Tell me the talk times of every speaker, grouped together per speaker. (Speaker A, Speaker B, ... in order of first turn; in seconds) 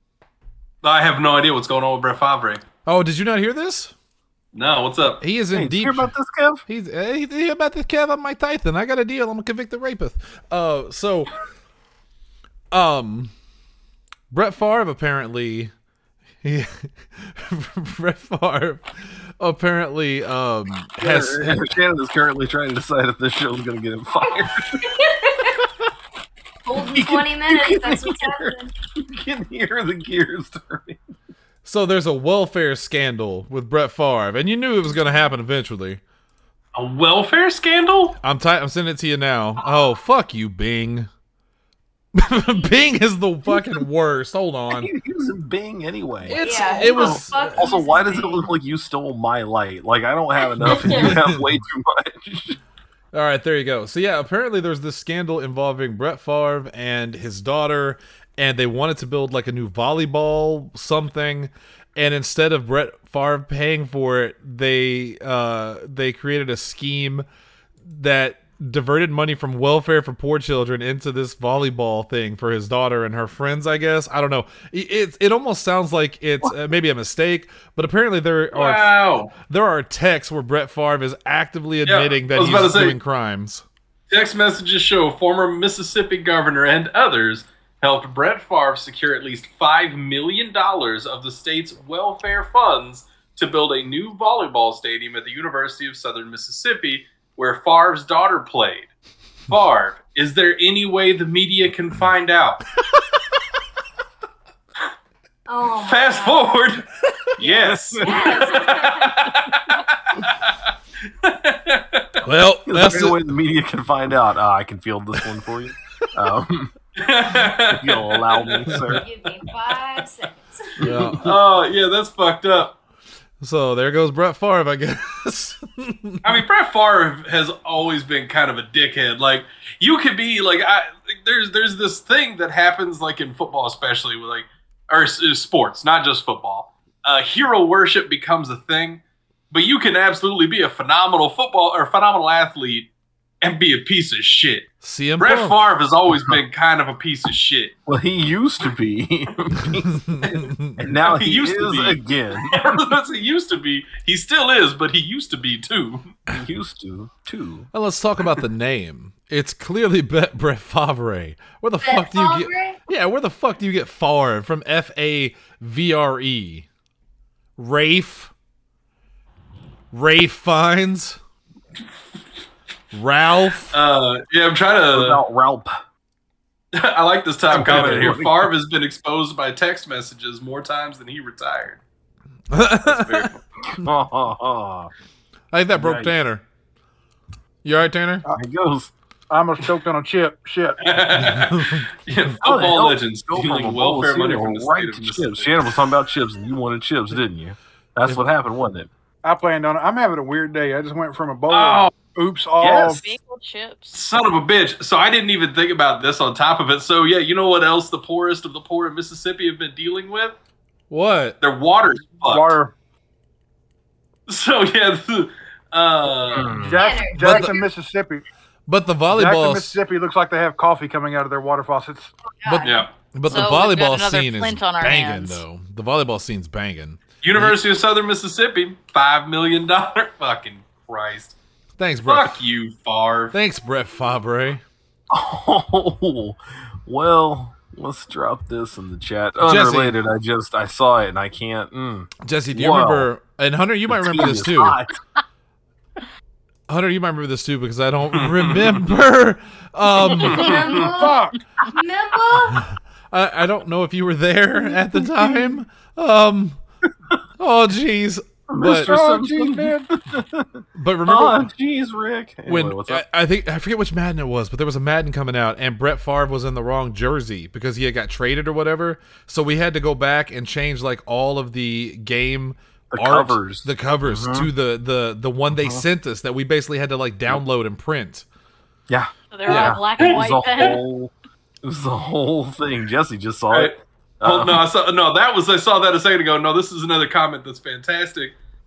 Speaker A: 0.8-2.6, 4.5-5.2, 36.8-38.1, 78.5-79.3, 81.9-83.0, 84.1-98.9, 99.5-102.6, 105.8-110.5, 111.2-112.1, 117.0-119.0, 119.7-120.1, 121.2-122.8, 126.2-142.9, 143.4-147.8, 151.0-156.2, 173.7-175.2, 176.7-181.8, 182.8-183.4, 190.8-195.7, 201.5-201.9, 203.9-210.4, 211.4-212.6, 214.3-216.6, 222.6-222.9, 227.2-231.4, 232.0-233.4, 248.1-248.8, 250.1-250.9, 279.5-280.8, 283.5-288.4
Speaker B: 2.9-3.9, 5.2-6.1, 6.7-11.3, 12.7-13.3, 14.3-15.7, 16.4-18.9, 19.4-21.7, 31.6-36.0, 38.2-41.1, 42.1-44.9, 46.2-47.6, 50.6-51.6, 53.1-67.2, 67.8-78.9, 79.5-83.6, 112.2-113.3, 120.8-121.4, 123.4-126.4, 144.8-145.6, 150.0-150.8, 157.7-166.7, 167.6-168.3, 169.9-171.2, 172.9-173.8, 182.5-183.3, 185.5-186.4, 187.6-188.2, 191.1-191.9, 210.9-211.4, 217.2-217.5, 218.7-219.8, 222.4-227.6, 231.8-232.4, 233.3-234.6, 239.4-240.0, 242.2-244.8, 246.7-250.8, 252.6-256.6, 257.4-258.9, 260.8-261.5, 262.4-278.2
Speaker C: 5.5-6.6, 21.0-24.9, 26.8-31.0, 44.7-52.6, 107.4-108.5, 112.6-116.7, 117.4-119.0, 120.8-121.2, 147.9-150.1, 150.8-152.8, 156.3-157.7, 174.9-175.8, 177.5-178.5, 183.6-184.9, 185.7-186.1, 188.3-188.9, 192.4-198.9, 216.3-216.9, 235.1-243.1, 243.9-244.9, 258.5-263.0, 272.9-274.5, 275.5-275.9, 278.9-281.1, 281.6-284.6
Speaker D: 24.8-25.6, 26.6-28.7, 46.4-48.5, 50.4-51.1, 105.5-106.7, 107.4-109.6, 118.9-120.8, 161.8-162.8, 216.8-217.6, 222.4-222.9, 250.2-252.7
Speaker E: 189.3-190.8, 199.2-203.0, 212.2-212.7, 216.6-218.2, 219.1-222.1, 250.8-251.4, 258.6-259.9
Speaker F: 202.7-203.9, 223.2-225.4, 279.3-280.8